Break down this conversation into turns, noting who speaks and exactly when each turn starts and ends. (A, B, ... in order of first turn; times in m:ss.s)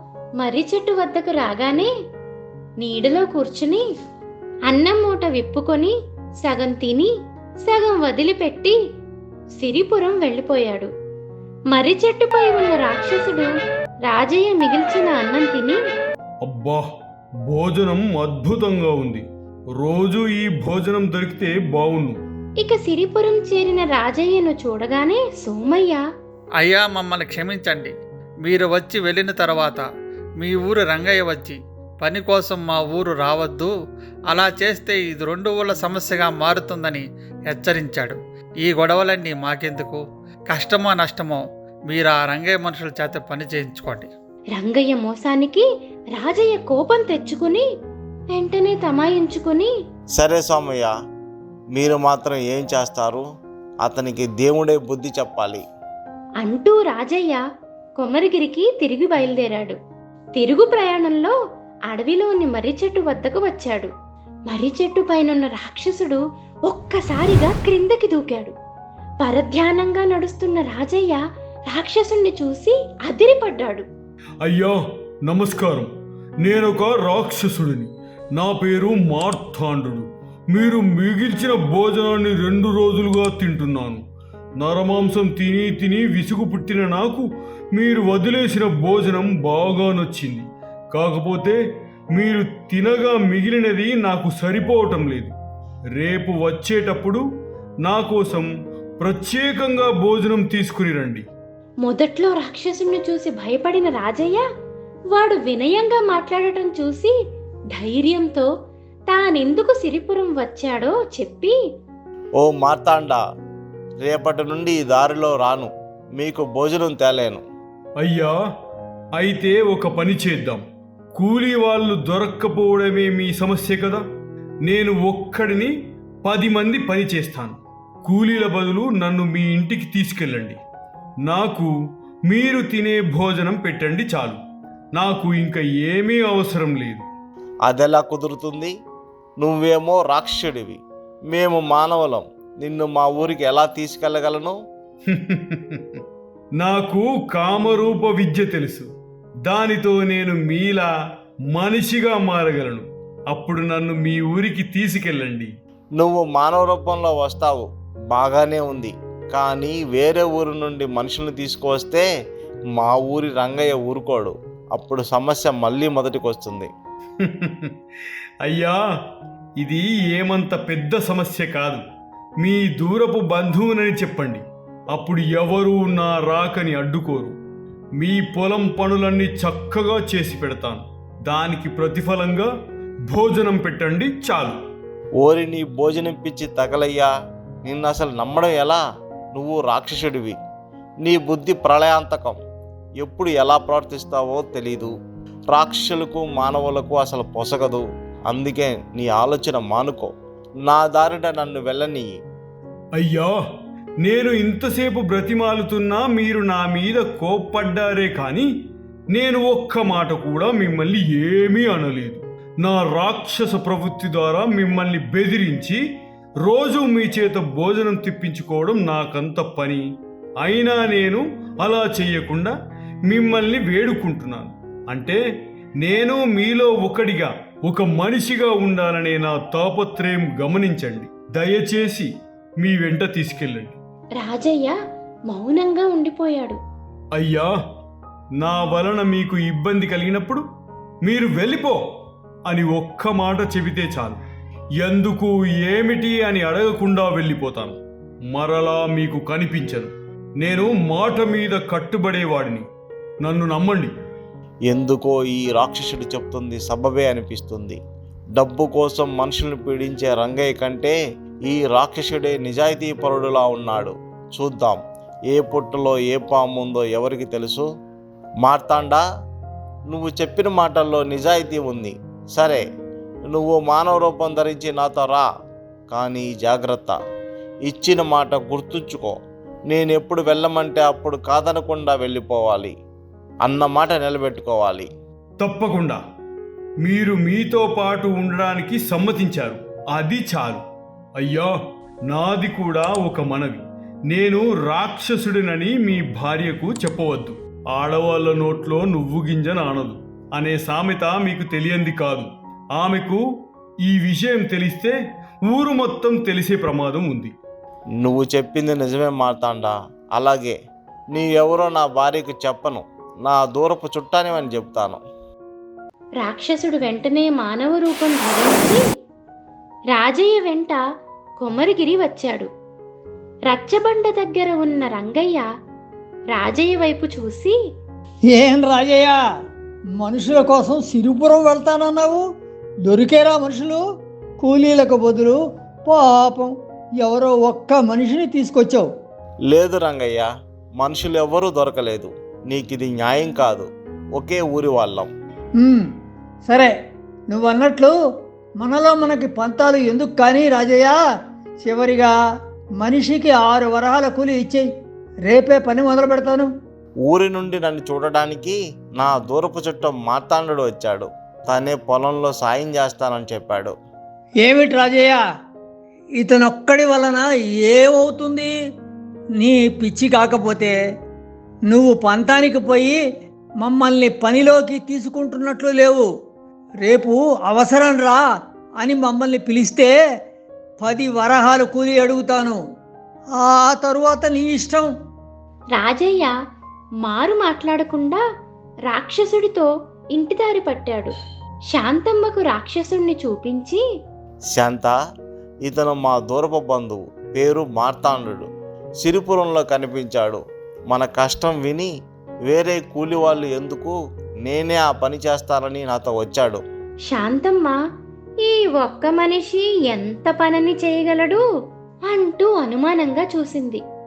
0:00.4-0:01.9 A
0:02.8-0:03.8 A
0:04.7-0:07.1 A
0:07.6-0:08.8 A
0:09.6-0:10.9 A
0:11.7-0:13.5 A
0:14.1-0:15.8 A
0:16.4-0:16.9 B
0:17.5-0:19.2 B
0:19.8-0:22.2 B
0:22.6-0:26.0 A
0:26.6-0:29.9 C
0:30.4-0:33.7 C
0:34.3-0:44.1 C
0:44.6-0:47.7 A
0:48.3-0:49.7 A
0:50.2-0:50.9 D
0:51.8-0:53.2 D
0:53.8-0:55.6 D
0:56.4-0:57.4 A
0:58.0-0:59.8 A
1:00.4-1:01.4 A
1:01.9-1:03.9 A
1:04.5-1:08.5 A
1:09.2-1:13.9 A
1:14.4-1:14.8 B
1:15.3-1:15.9 B
1:16.4-1:24.0 B
1:24.6-1:31.6 B
1:32.2-1:35.3 B
1:36.0-1:37.2 B
1:37.8-1:41.2 B
1:41.8-1:44.4 A
1:45.1-1:47.1 A
1:47.7-1:48.5 A
1:49.1-1:51.6 A
1:52.4-1:53.2 D
1:54.0-1:57.4 D
1:58.0-1:58.3 B
1:59.2-2:00.6 B
2:01.2-2:04.0 B
2:04.7-2:05.7 B
2:06.2-2:10.6 B
2:11.3-2:11.7 B
2:12.3-2:14.4 B
2:15.0-2:17.1 B
2:17.7-2:18.7 D
2:19.4-2:20.8 D
2:21.3-2:24.6 D
2:25.1-2:26.0 B
2:26.6-2:28.9 B
2:29.5-2:30.9 B
2:31.5-2:35.5 B
2:36.0-2:42.1 D
2:42.8-2:46.7 D
2:47.2-2:47.7 B
2:48.4-2:48.8 B
2:49.6-2:51.8 B
2:52.4-2:57.4 B
2:58.0-3:02.5 B
3:03.1-3:04.6 B
3:05.2-3:07.1 D
3:07.6-3:08.8 D
3:09.3-3:10.4 D
3:11.0-3:12.4 D
3:13.0-3:14.9 D
3:15.5-3:20.1 D
3:20.7-3:22.1 D
3:23.0-3:23.3 B
3:24.0-3:28.5 B
3:29.1-3:35.8 B
3:36.4-3:39.8 B
3:40.4-3:42.5 B
3:43.1-3:45.2 B
3:45.8-3:53.8 B
3:54.2-3:54.8 A
3:55.3-3:56.6 A
3:57.2-3:57.5 B
3:58.4-4:00.4 B
4:01.0-4:01.8 B
4:02.5-4:04.2 B
4:04.8-4:07.8 B
4:08.3-4:12.7 B
4:13.2-4:13.9 B
4:14.7-4:17.8 D
4:18.4-4:27.7 D
4:28.4-4:29.0 D
4:29.9-4:32.6 D
4:33.3-4:35.3 D
4:35.9-4:37.0 D
4:37.7-4:42.7 D
4:43.4-4:44.9 D
4:45.4-4:46.0 B
4:46.8-4:50.6 B
4:51.2-4:51.5 B
4:52.1-5:03.2 B
5:03.9-5:05.0 B
5:05.5-5:07.3 B
5:08.0-5:10.6 D
5:11.1-5:15.0 D
5:16.2-5:18.8 A
5:19.9-5:20.8 A
5:21.4-5:22.5 A
5:23.5-5:25.4 A
5:26.3-5:27.6 A
5:28.3-5:29.2 E
5:30.0-5:32.2 E
5:32.9-5:33.8 E
5:34.4-5:38.9 E
5:39.5-5:40.3 D
5:40.8-5:45.1 D
5:45.6-5:45.9 E
5:46.4-5:46.7 E
5:47.3-5:47.9 E
5:48.6-5:51.0 E
5:51.6-5:52.1 E
5:52.8-5:54.7 E
5:55.3-5:56.5 E
5:57.1-6:03.7 D
6:04.4-6:05.2 E
6:06.2-6:08.5 E
6:09.4-6:10.8 E
6:11.7-6:13.0 E
6:13.6-6:16.1 E
6:16.8-6:18.2 E
6:18.8-6:19.9 E
6:20.8-6:22.6 E
6:23.4-6:24.9 E
6:25.7-6:26.3 A
6:27.0-6:28.2 A
6:28.9-6:31.1 A
6:31.7-6:33.8 A
6:34.6-6:35.0 D
6:35.6-6:38.5 D
6:39.0-6:41.9 D
6:42.5-6:46.6 D
6:47.1-6:47.8 A
6:48.4-6:51.4 A
6:52.1-6:53.8 A